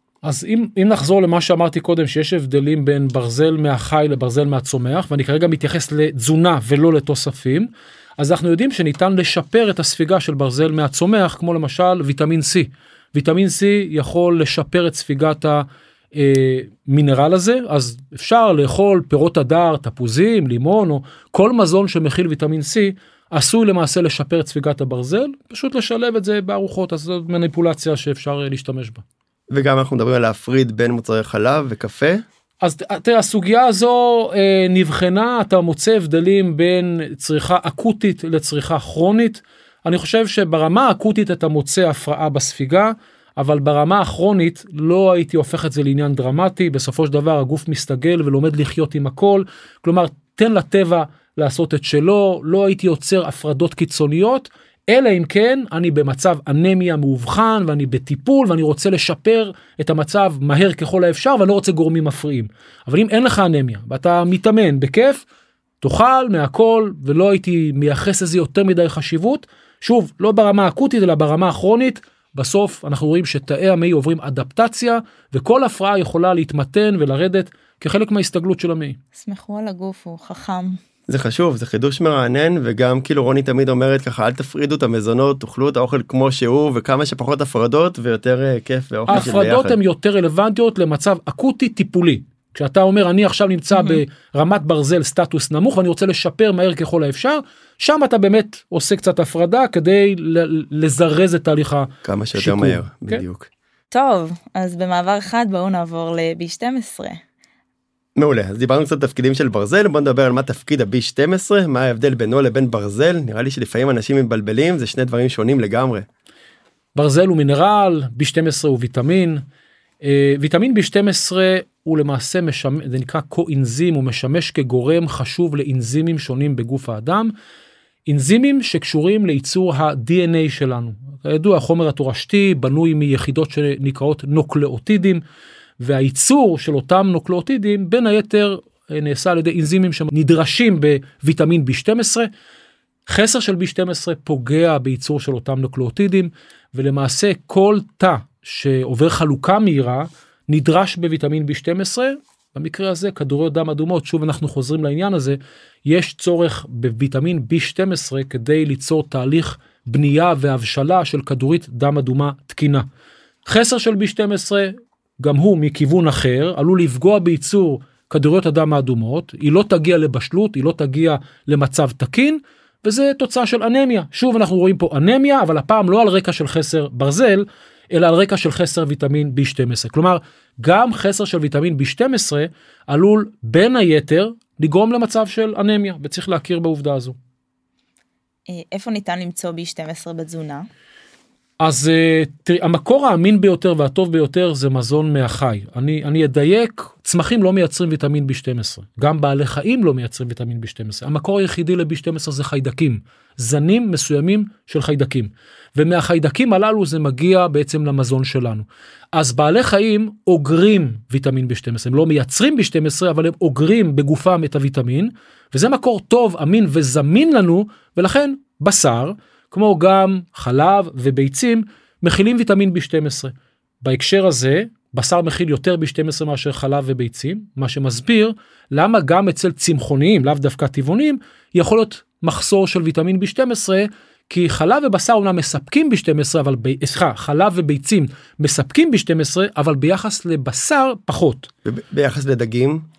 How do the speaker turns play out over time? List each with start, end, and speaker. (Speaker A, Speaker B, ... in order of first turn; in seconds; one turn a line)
Speaker A: 0.2-29.0
Speaker B: 29.5-32.2
Speaker A: 32.6-65.2
Speaker A: 65.8-79.0
Speaker C: 79.1-80.8
Speaker B: 81.1-89.8
Speaker A: 89.1-103.2
Speaker C: 93.7-94.0
Speaker B: 102.0-103.5
Speaker C: 103.9-107.2
Speaker B: 108.2-116.0
Speaker A: 117.0-119.4
Speaker A: 120.0-127.3
Speaker A: 128.1-135.2
Speaker A: 135.8-142.3
Speaker A: 143.1-162.8
Speaker A: 163.4-187.2
Speaker C: 188.5-190.7
Speaker A: 191.6-241.5
Speaker B: 241.7-242.8